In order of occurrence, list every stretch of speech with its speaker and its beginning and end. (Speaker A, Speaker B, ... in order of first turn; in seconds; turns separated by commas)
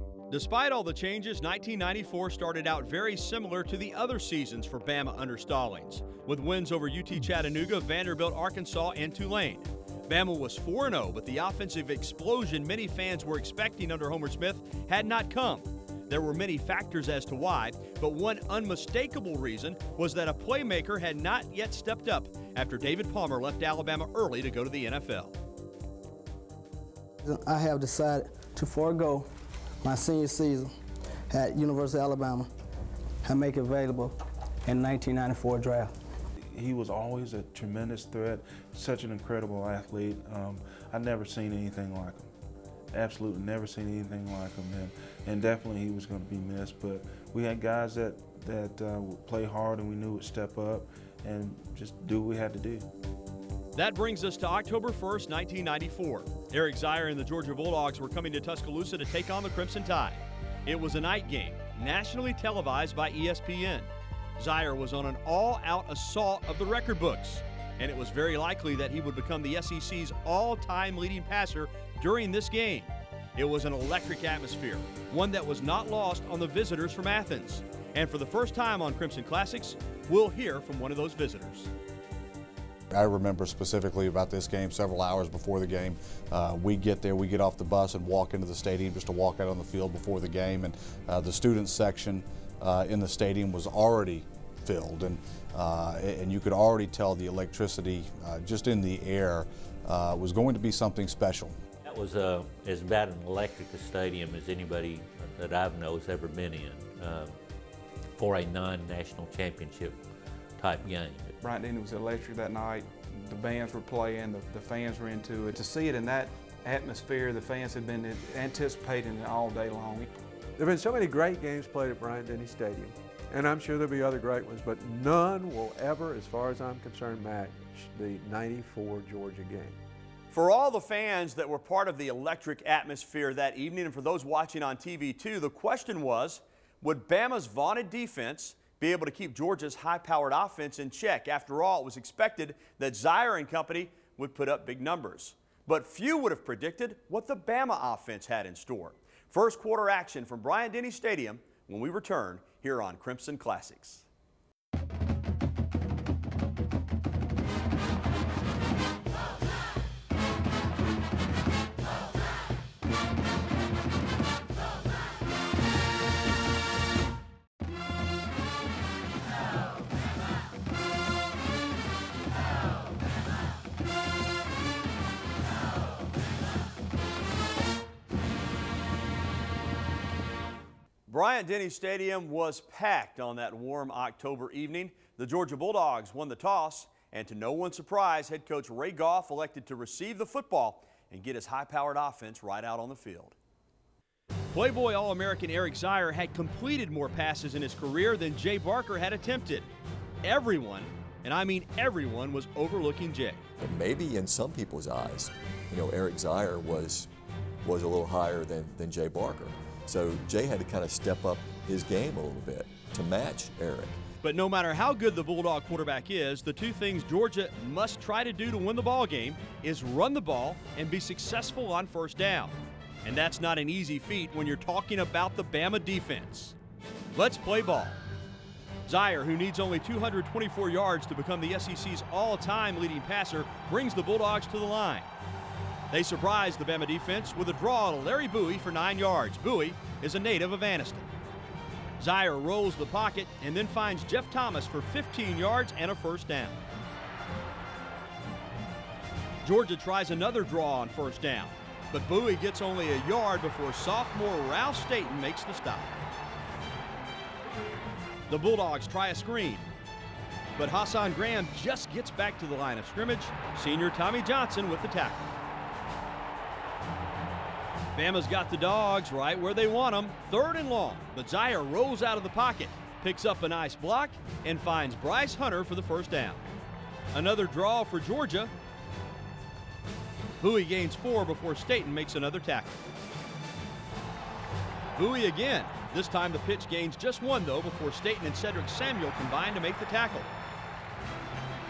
Speaker A: 0.3-25.3, Speaker B: 27.2-29.3, Speaker B: 29.8-30.8, Speaker B: 31.3-32.5, Speaker B: 33.2-36.0, Speaker C: 36.5-42.3, Speaker C: 42.9-52.9, Speaker A: 53.7-81.7, Speaker D: 82.9-101.6, Speaker E: 101.8-107.3, Speaker E: 108.2-110.0, Speaker E: 110.6-111.3, Speaker F: 111.4-120.1, Speaker G: 120.6-129.8, Speaker A: 130.3-154.0, Speaker A: 181.1-193.3, Speaker A: 194.5-199.7, Speaker A: 200.2-203.4, Speaker H: 203.6-207.1, Speaker H: 207.6-214.0, Speaker A: 214.2-226.6, Speaker A: 227.1-228.0, Speaker A: 228.9-235.1, Speaker A: 235.9-241.1, Speaker A: 242.0-246.6, Speaker A: 249.4-256.0, Speaker A: 258.3-259.7, Speaker A: 260.6-265.3, Speaker A: 267.9-276.4, Speaker A: 277.1-278.5, Speaker A: 280.4-282.8, Speaker A: 284.9-290.3